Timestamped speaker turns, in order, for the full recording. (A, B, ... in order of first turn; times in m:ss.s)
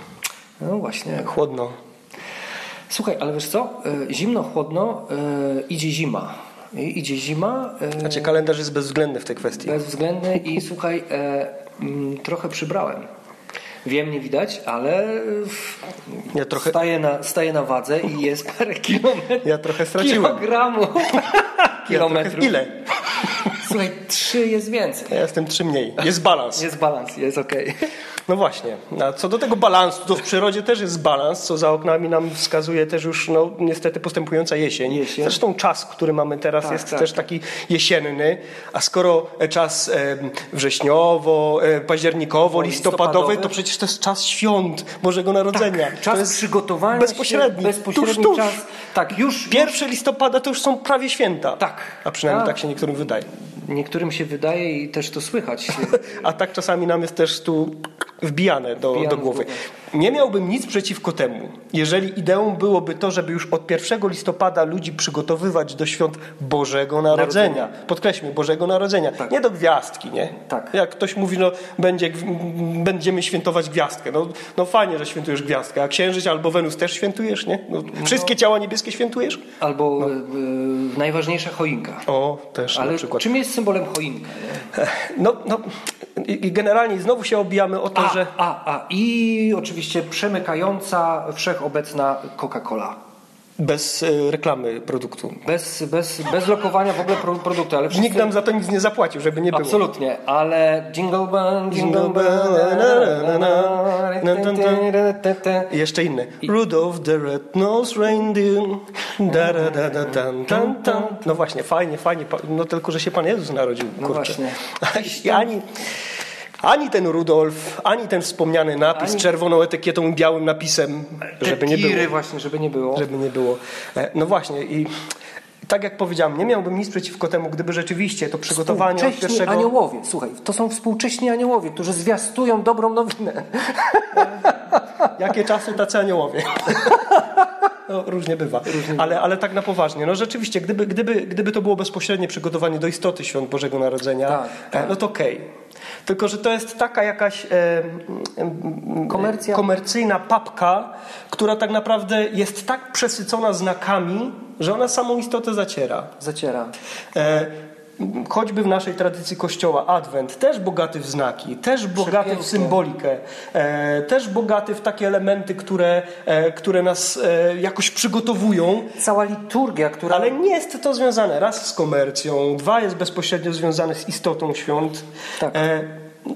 0:00.6-0:01.4 A
0:01.2-0:01.8 B
0:02.9-0:08.4 A
0:08.0-0:09.8 B
0:09.6-0:13.1 A
0:13.8-0:22.6 A
0:16.3-0:16.8 B
0:19.4-0:20.5 B
0:21.9-0:22.7 B
0:23.2-0:25.2 A
0:25.1-0:26.7 B
0:26.6-0:27.9 A
0:28.3-0:48.6 B
0:34.9-0:35.4 A
0:36.6-0:37.3 A
0:42.5-0:43.6 A
0:45.5-0:49.8 A
0:49.5-0:53.3 B
0:51.6-0:52.6 A
0:53.6-0:56.1 A
0:55.8-1:19.4 B
0:58.9-0:59.7 A
1:07.1-1:07.7 A
1:10.4-1:10.7 A
1:19.6-1:22.1 A
1:22.1-1:23.3 B
1:22.7-1:24.7 A
1:24.7-1:28.3 B
1:28.0-1:33.0 A
1:33.6-1:35.4 B
1:35.4-1:38.3 A
1:37.9-1:39.8 B
1:39.5-1:45.7 A
1:41.7-1:44.9 B
1:45.6-1:55.7 B
1:49.3-1:51.3 A
1:54.0-1:55.5 A
1:56.6-2:02.2 B
1:58.9-1:59.3 A
2:01.2-2:03.1 A
2:03.0-2:04.9 B
2:05.6-2:09.7 B
2:08.5-2:14.8 A
2:15.2-2:17.2 B
2:17.9-2:25.4 B
2:18.7-2:19.2 A
2:24.3-2:25.0 A
2:26.0-2:36.1 B
2:29.1-2:29.7 A
2:36.2-2:36.7 A
2:37.2-2:48.9 B
2:42.0-2:42.8 A
2:49.0-2:50.4 A
2:50.1-2:56.0 B